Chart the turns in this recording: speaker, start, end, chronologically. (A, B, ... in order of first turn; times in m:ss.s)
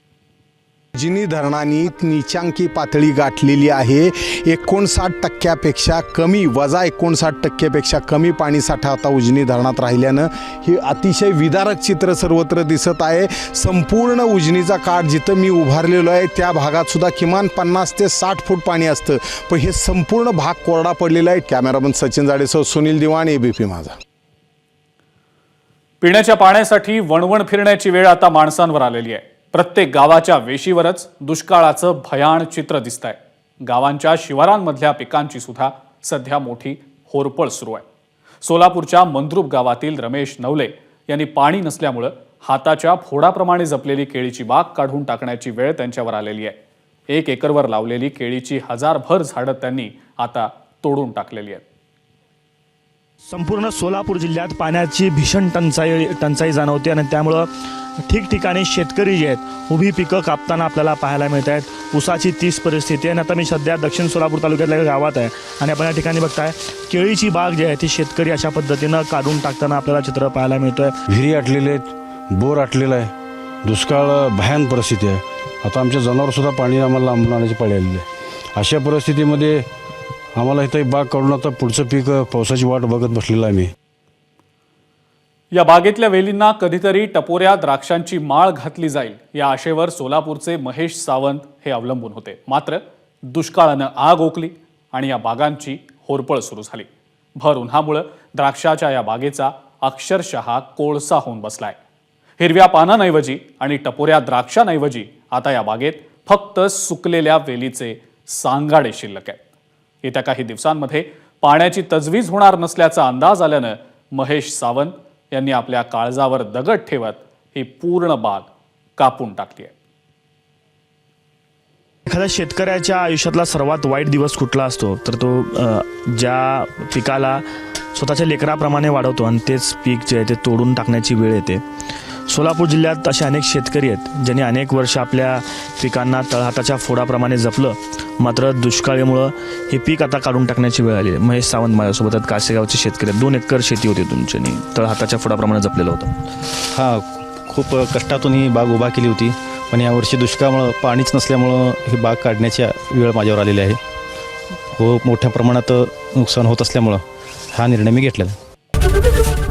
0:01.0-0:23.9 A
0:26.0-0:37.8 B
0:38.4-0:46.6 B
0:47.1-0:51.6 B
0:53.3-0:57.5 C
0:58.1-1:10.9 C
1:11.1-1:13.1 D
1:13.6-1:19.7 D
1:20.4-1:23.7 D
1:25.5-1:36.9 B
1:37.4-1:41.8 B
1:42.4-1:49.4 B
1:50.0-1:59.7 B
2:02.1-2:07.4 C
2:07.9-2:11.6 C
2:12.3-2:26.1 C
2:26.7-2:33.8 E
2:34.8-2:38.4 E